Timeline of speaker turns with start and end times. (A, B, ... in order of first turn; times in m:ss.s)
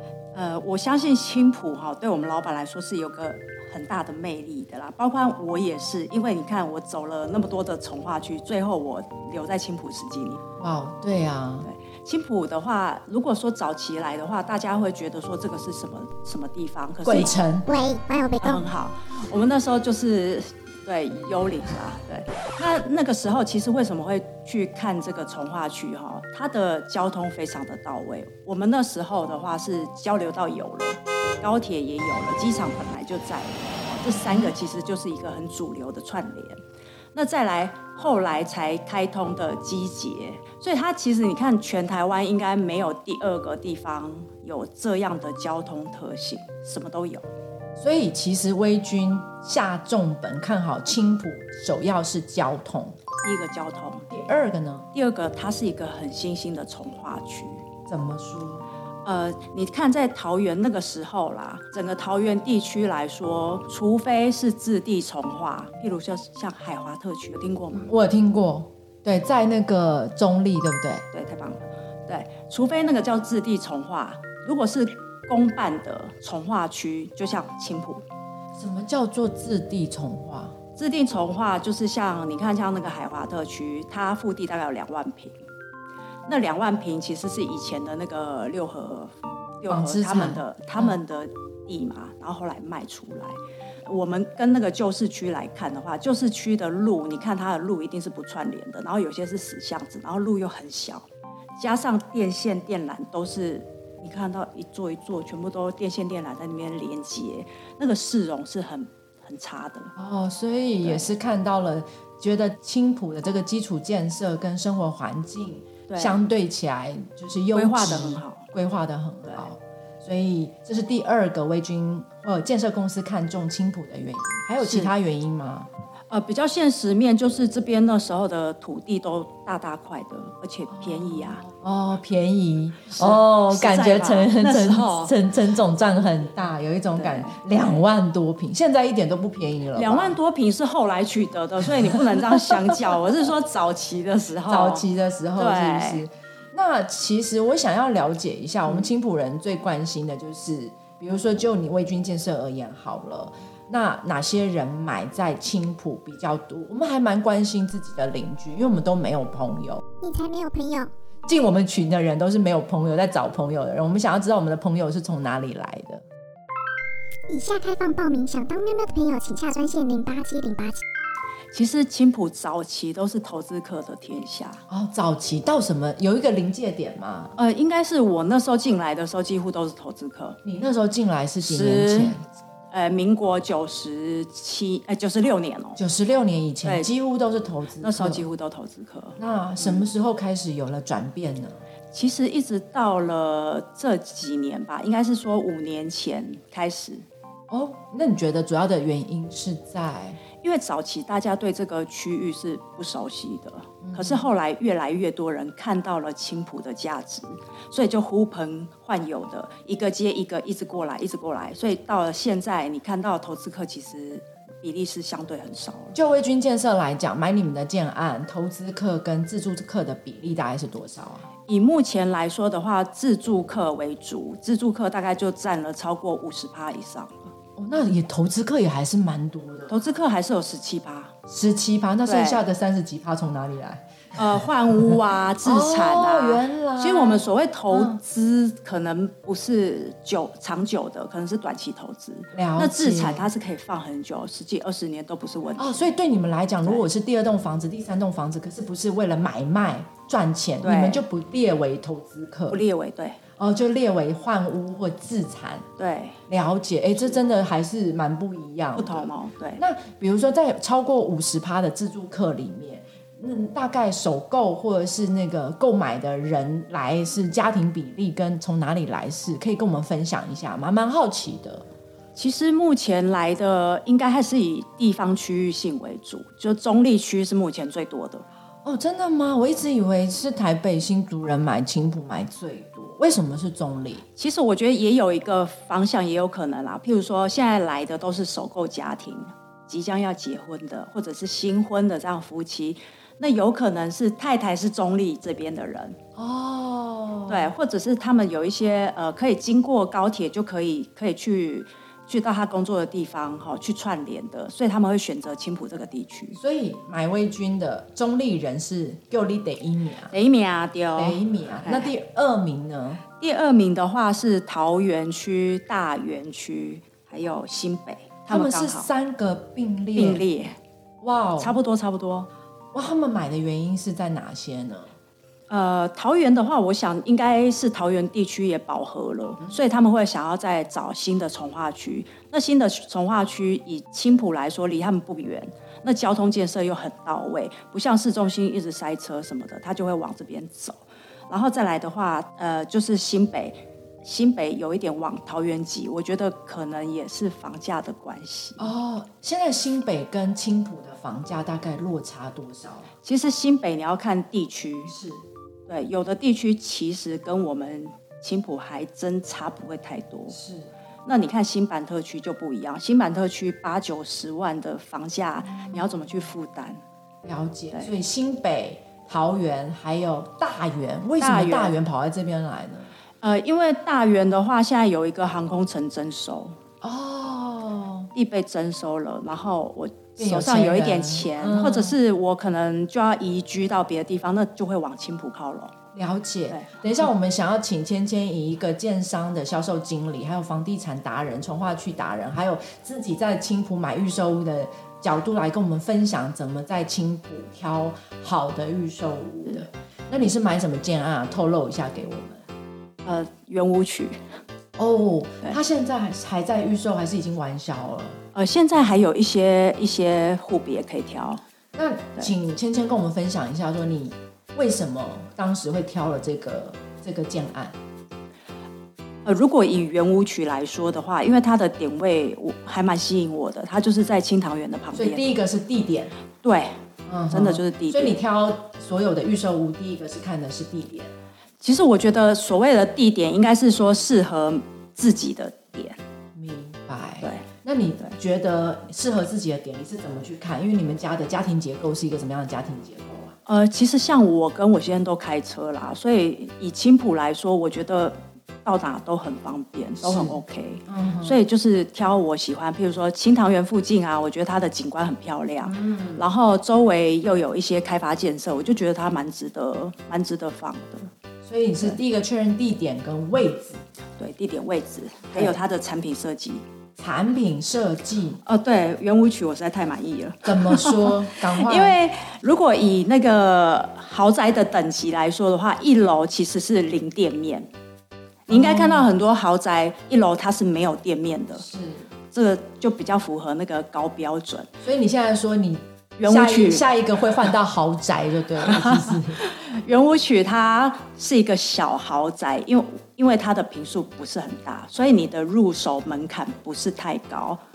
0:00.3-0:10.4 A
0:10.6-0:11.7 B
0:11.6-0:17.4 A
0:17.0-0:17.7 B
0:17.7-0:18.7 C
0:18.4-0:36.6 A
0:34.1-0:34.5 B
0:37.1-0:47.3 A
0:47.8-0:53.0 B
0:53.2-0:54.1 A
0:54.1-0:54.9 B
0:54.9-0:57.6 A
0:57.9-0:58.6 B
0:59.1-1:07.9 A
1:07.8-1:11.0 B
1:11.1-1:18.0 A
1:18.6-1:20.6 B
1:20.8-1:25.4 A
1:26.3-1:41.1 A
1:29.7-1:31.0 B
1:41.6-1:49.9 A
1:50.0-2:05.7 B
1:50.8-1:51.1 A
1:55.9-1:56.2 A
1:57.5-1:58.5 A
2:04.6-2:04.9 A
2:06.1-2:11.4 A
2:10.7-2:20.2 B
2:12.9-2:15.1 A
2:17.0-2:17.8 A
2:19.7-2:24.8 A
2:21.8-2:22.9 B
2:24.5-2:39.8 B
2:25.4-2:26.0 A
2:40.0-2:40.9 C
2:41.3-2:46.0 B
2:47.3-2:50.8 C
2:51.5-2:54.6 A
2:54.7-2:57.3 B
2:57.4-3:00.4 A
3:00.4-3:02.2 B
3:01.4-3:02.2 A
3:02.7-3:05.8 A
3:05.8-3:08.2 B
3:07.8-3:09.8 A
3:09.2-3:11.6 B
3:11.9-3:17.1 A
3:17.5-3:20.2 B
3:20.4-3:36.0 A
3:23.8-3:24.2 B
3:35.9-3:41.3 B
3:41.5-3:47.3 A
3:47.6-3:49.8 B
3:49.7-3:51.1 A
3:51.3-3:54.2 B
3:52.0-3:52.4 A
3:54.2-4:05.9 A
3:55.4-3:58.0 B
4:02.3-4:03.3 B
4:05.6-4:12.6 B
4:10.6-4:11.0 A
4:12.5-4:13.2 A
4:13.4-4:15.7 B
4:15.8-4:16.2 A
4:16.3-4:31.7 B
4:18.8-4:19.6 A
4:32.2-4:38.2 A
4:38.6-4:44.0 B
4:44.2-4:56.0 A
4:56.2-4:57.5 B
4:57.3-5:06.4 A
5:06.4-5:10.1 B
5:10.1-5:11.9 A
5:11.0-5:13.0 B
5:13.2-5:18.9 A
5:18.3-5:20.2 B
5:20.0-5:20.6 A
5:21.0-5:21.6 B
5:21.4-5:22.3 A
5:22.7-5:24.9 B
5:25.5-5:48.7 A
5:48.6-5:52.9 B
5:53.0-5:54.9 A
5:54.9-5:55.2 B
5:55.7-6:00.4 A
6:00.3-6:00.7 B
6:01.1-6:06.8 A
6:07.2-6:12.9 B
6:11.2-6:11.8 A
6:13.2-6:16.6 A
6:16.8-6:18.1 B
6:18.1-6:25.7 A
6:20.2-6:22.0 B
6:25.9-6:42.4 B
6:26.5-6:26.8 A
6:43.0-6:44.2 A
6:44.8-6:48.2 B
6:48.3-6:51.4 A
6:51.8-6:57.8 B
6:59.2-7:05.2 A
7:04.9-7:06.1 B
7:06.4-7:06.8 A
7:07.1-7:11.1 B
7:07.3-7:08.2 A
7:11.6-7:16.0 A
7:16.3-7:23.4 B
7:23.5-7:41.1 A
7:30.0-7:31.4 B
7:35.6-7:36.2 B
7:41.4-7:43.8 B
7:44.2-7:46.6 A
7:45.3-7:45.6 B
7:47.0-7:48.4 B
7:48.4-7:57.7 A
7:50.4-7:52.0 B
7:58.5-8:01.7 A
7:58.5-7:59.1 B
8:01.6-8:02.1 B
8:02.3-8:04.7 A
8:04.8-8:09.4 B
8:06.2-8:06.9 A
8:08.6-8:17.6 A